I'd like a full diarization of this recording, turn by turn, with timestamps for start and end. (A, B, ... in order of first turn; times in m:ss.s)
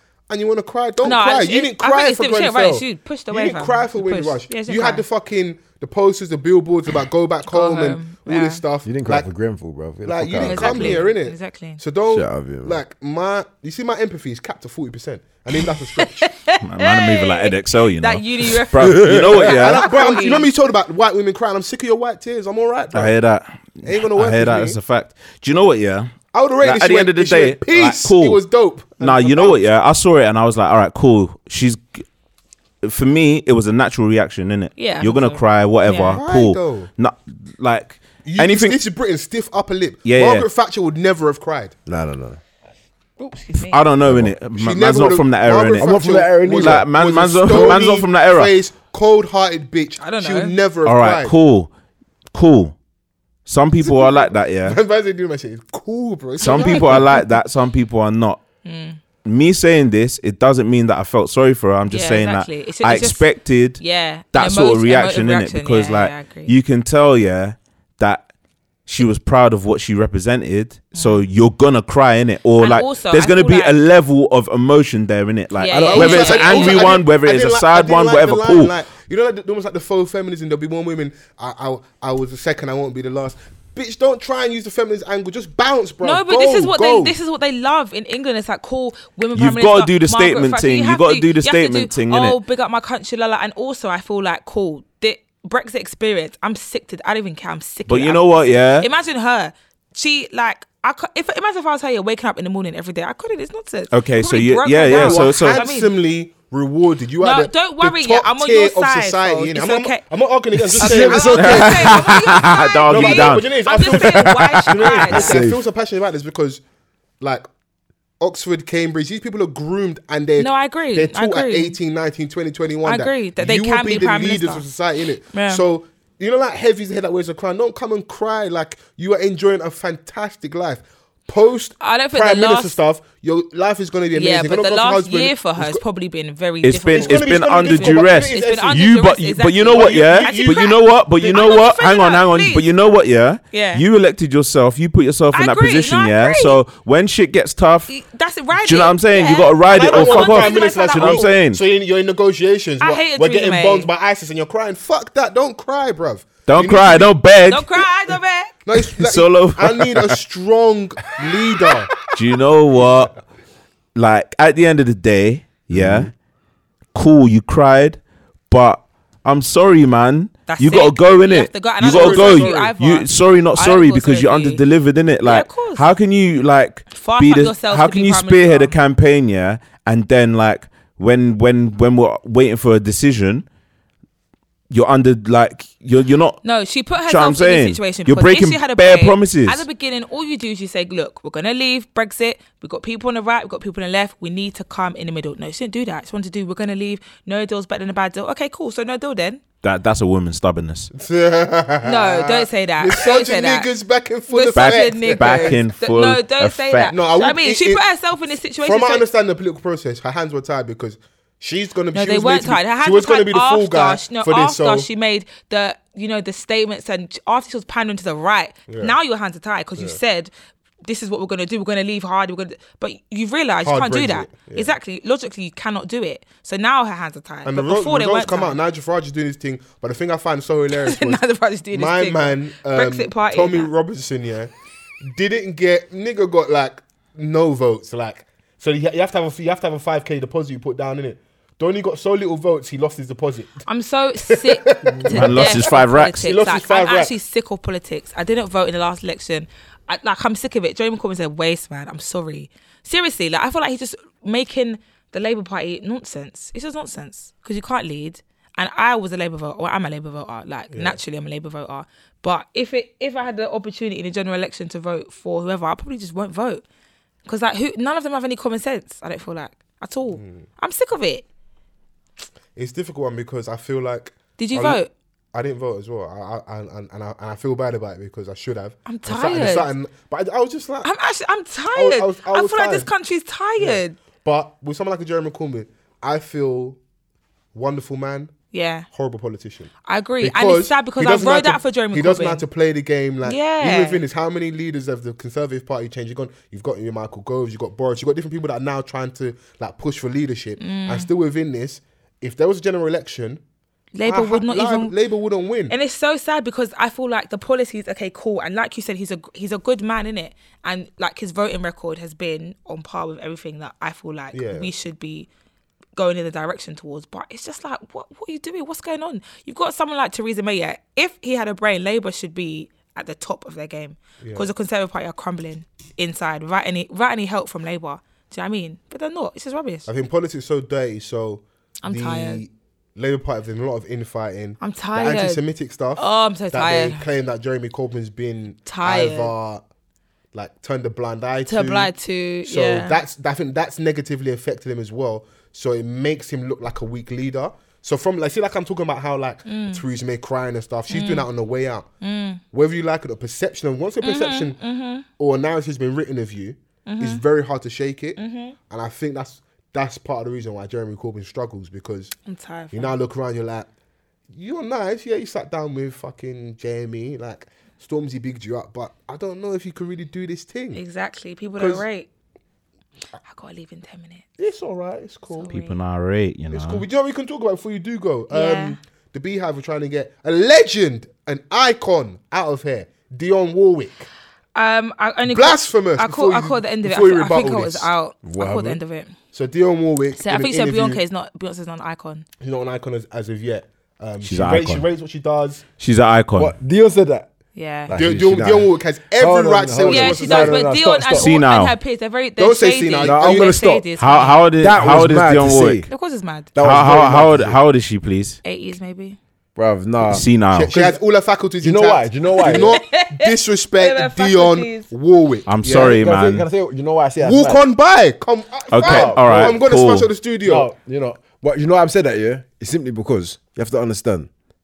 0:00.3-0:09.3 A
0:01.0-0:05.0 B
0:07.5-0:08.6 B
0:08.8-0:11.0 C
0:10.0-0:16.3 A
0:10.4-0:11.8 B
0:12.1-0:12.8 C
0:16.0-0:20.5 B
0:16.6-0:19.9 D
0:18.7-0:19.4 C
0:19.4-0:23.1 A
0:22.9-0:28.4 D
0:23.8-0:24.8 A
0:26.3-0:29.6 A
0:29.0-0:32.0 D
0:32.8-0:38.8 D
0:34.8-0:36.2 B
0:36.1-0:36.9 A
0:38.2-0:41.7 A
0:40.0-0:40.5 D
0:41.8-0:42.4 C
0:43.2-0:43.8 B
0:43.7-0:48.5 D
0:44.0-0:44.3 C
0:44.5-0:51.3 A
0:45.8-0:46.9 C
0:47.4-0:47.8 C
0:50.0-0:50.5 B
0:50.8-0:51.7 D
0:52.3-0:52.8 D
0:53.4-0:54.8 D
0:53.8-0:57.1 A
0:56.4-0:58.4 D
0:56.4-0:57.2 B
0:58.6-0:59.0 B
0:59.2-1:03.8 D
1:01.9-1:03.2 B
1:03.8-1:06.6 B
1:04.3-1:08.3 D
1:08.8-1:18.7 D
1:10.9-1:11.2 B
1:12.6-1:13.8 B
1:15.6-1:16.9 B
1:15.7-1:16.2 C
1:15.8-1:27.2 A
1:26.0-1:45.9 B
1:29.3-1:32.4 D
1:37.9-1:38.9 D
1:43.9-1:45.6 D
1:44.9-1:51.7 A
1:47.2-1:50.0 B
1:50.6-1:52.0 C
1:50.8-1:55.4 B
1:51.1-1:55.0 D
1:52.9-1:56.6 A
1:55.1-1:55.6 C
1:57.2-1:57.4 A
1:58.2-2:15.8 A
2:00.4-2:01.8 B
2:02.8-2:04.6 B
2:05.3-2:05.6 B
2:11.8-2:12.8 B
2:14.1-2:22.6 B
2:16.6-2:27.9 D
2:17.0-2:18.8 A
2:19.7-2:21.4 A
2:23.5-2:23.8 B
2:25.3-2:26.6 B
2:27.9-2:31.4 B
2:28.5-2:31.6 D
2:29.7-2:37.1 A
2:32.8-2:33.9 B
2:36.5-2:37.8 D
2:37.5-2:38.5 B
2:38.6-2:41.9 A
2:38.8-2:40.2 D
2:42.0-2:43.1 D
2:43.9-2:46.1 D
2:45.7-2:46.1 C
2:46.9-3:03.4 D
2:50.5-2:54.6 B
2:51.8-2:52.7 A
2:55.2-2:55.9 B
2:56.9-2:58.8 B
3:04.7-3:06.4 D
3:06.4-3:19.4 B
3:07.0-3:09.6 D
3:19.6-3:20.9 D
3:20.9-3:25.6 A
3:21.8-3:23.7 B
3:24.3-3:29.1 B
3:24.5-3:27.0 D
3:26.9-3:27.8 A
3:28.6-3:34.9 A
3:31.9-3:40.3 B
3:38.7-3:38.9 A
3:40.8-3:48.6 B
3:43.6-3:44.7 A
3:47.4-3:54.5 A
3:50.8-3:53.7 B
3:55.1-4:03.6 A
4:03.6-4:26.6 B
4:04.3-4:07.1 A
4:05.1-4:06.2 D
4:20.7-4:21.0 A
4:27.2-4:31.2 B
4:30.1-4:30.4 A
4:32.5-4:34.8 A
4:34.4-4:34.9 B
4:35.3-4:40.9 A
4:38.8-4:39.7 B
4:40.8-4:44.0 B
4:41.7-4:42.9 A
4:43.6-4:46.8 A
4:47.5-4:48.3 A
4:48.5-4:48.9 B
4:48.9-5:03.4 A
4:49.9-4:52.4 B
4:53.2-4:54.0 B
5:00.6-5:01.1 B
5:03.9-5:05.0 B
5:04.0-5:05.7 A
5:05.7-5:15.3 B
5:14.3-5:14.7 A
5:16.0-5:29.9 B
5:24.2-5:24.5 A
5:29.9-5:39.6 A
5:31.8-5:32.4 B
5:34.6-5:35.4 B
5:36.0-5:37.0 B
5:38.6-5:39.3 B
5:40.3-5:41.9 A
5:41.4-5:43.0 B
5:42.4-5:51.9 A
5:49.4-5:49.8 B
5:50.9-5:51.2 B
5:52.0-5:52.4 B
5:52.5-5:54.6 A
5:54.0-5:55.0 B
5:55.2-6:02.1 A
5:56.8-5:57.2 B
5:58.2-5:58.6 B
6:02.2-6:03.0 B
6:02.7-6:03.7 A
6:04.3-6:10.8 A
6:10.7-6:12.1 B
6:11.6-6:11.8 A
6:13.2-6:14.2 B
6:14.4-6:15.5 A
6:15.3-6:15.8 B
6:15.5-6:16.8 D
6:16.5-6:24.1 A
6:18.3-6:18.8 B
6:24.5-6:29.1 B
6:25.2-6:27.9 A
6:28.2-6:28.8 C
6:29.3-6:31.0 A
6:30.2-6:32.2 B
6:32.4-6:35.6 A
6:34.2-6:34.8 D
6:35.8-6:36.5 D
6:36.4-6:37.3 C
6:37.5-6:38.0 B
6:37.9-6:41.3 C
6:37.9-6:40.7 A
6:39.9-6:44.4 B
6:41.2-6:41.8 D
6:42.4-6:43.7 A
6:43.0-6:43.8 C
6:44.0-6:45.9 D
6:44.6-6:45.9 C
6:45.9-6:46.5 B
6:46.5-6:47.6 C
6:46.6-6:48.4 D
6:48.4-6:49.2 B
6:49.6-6:51.0 C
6:50.0-6:50.7 D
6:50.5-6:56.0 A
6:51.6-6:52.8 C
6:52.4-6:54.9 B
6:55.5-6:56.5 D
6:55.6-6:57.6 C
6:57.2-7:00.7 A
6:58.7-7:00.1 D
6:58.8-6:59.6 C
7:00.4-7:04.3 C